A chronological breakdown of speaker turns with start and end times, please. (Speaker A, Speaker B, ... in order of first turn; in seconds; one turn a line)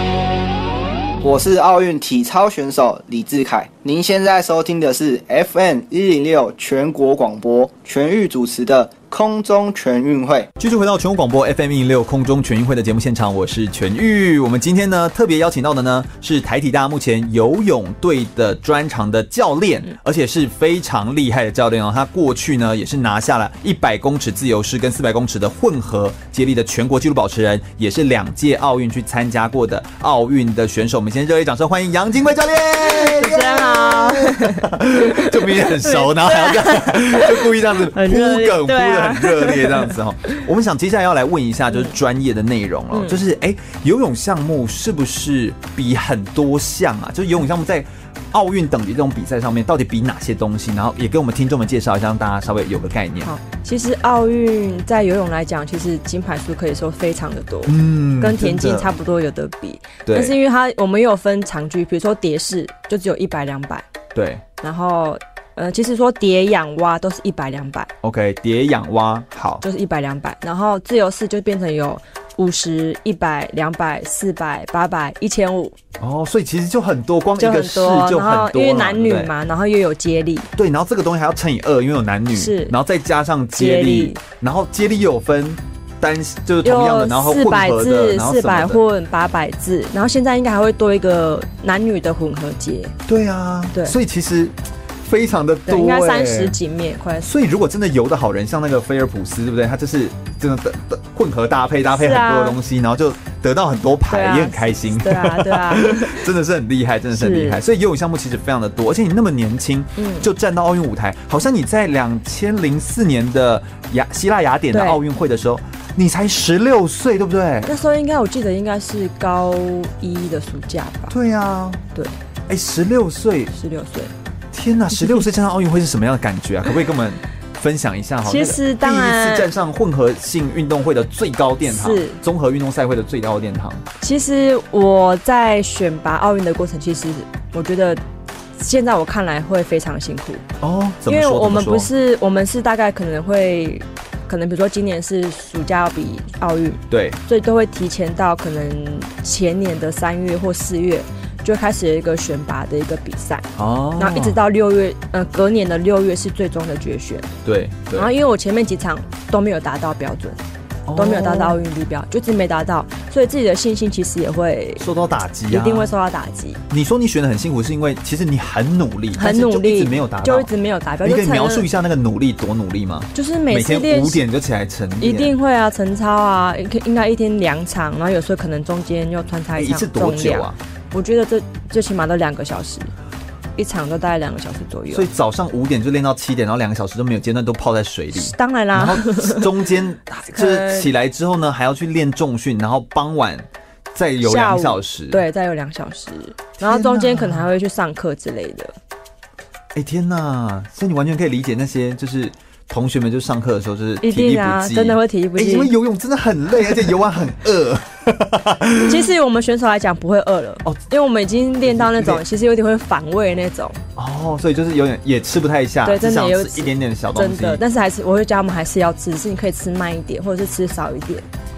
Speaker A: 1.2-10.5
Speaker B: 10.6-53.3
Speaker C: 32.8-40.4
Speaker C: 42.9-43.2
Speaker C: 53.2-63.9
Speaker B: 57.7-58.9
Speaker B: 60.1-60.4
Speaker B: 64.2-64.4
Speaker C: 64.6-67.9
Speaker B: 68.0-69.6
Speaker C: 69.6-75.8
Speaker B: 76.0-79.3
Speaker C: 77.4-80.5
Speaker B: 80.6-88.8
Speaker C: 82.3-82.8
Speaker C: 83.5-84.2
Speaker C: 86.6-93.0
Speaker B: 93.1-96.6
Speaker C: 95.7-97.3
Speaker B: 97.2-117.7
Speaker C: 101.9-102.6
Speaker C: 104.1-106.3
Speaker C: 107.1-107.6
Speaker C: 110.0-110.3
Speaker C: 114.7-115.0
Speaker C: 117.7-121.2
Speaker B: 121.1-121.8
Speaker B: 122.5-123.5
Speaker C: 123.5-124.1
Speaker B: 124.5-133.8
Speaker C: 125.0-125.2
Speaker C: 128.2-129.5
Speaker C: 131.7-132.2
Speaker C: 134.0-138.0
Speaker C: 138.6-140.4
Speaker B: 140.6-141.9
Speaker C: 141.1-153.5
Speaker B: 146.9-147.2
Speaker B: 153.6-154.4
Speaker C: 154.0-157.3
Speaker B: 157.4-158.1
Speaker C: 157.9-160.4
Speaker B: 160.9-161.6
Speaker C: 160.9-164.9
Speaker B: 164.8-165.9
Speaker C: 165.5-166.6
Speaker B: 166.7-170.5
Speaker C: 169.1-171.7
Speaker B: 171.0-175.4
Speaker C: 173.1-174.2
Speaker C: 175.0-182.9
Speaker B: 179.6-180.6
Speaker C: 183.6-185.1
Speaker B: 184.9-195.2
Speaker C: 188.1-189.5
Speaker C: 190.3-190.9
Speaker C: 194.2-198.7
Speaker B: 196.6-197.5
Speaker B: 199.7-209.1
Speaker C: 204.0-205.7
Speaker C: 208.8-213.8
Speaker B: 211.6-212.2
Speaker B: 214.0-217.6
Speaker C: 215.8-221.3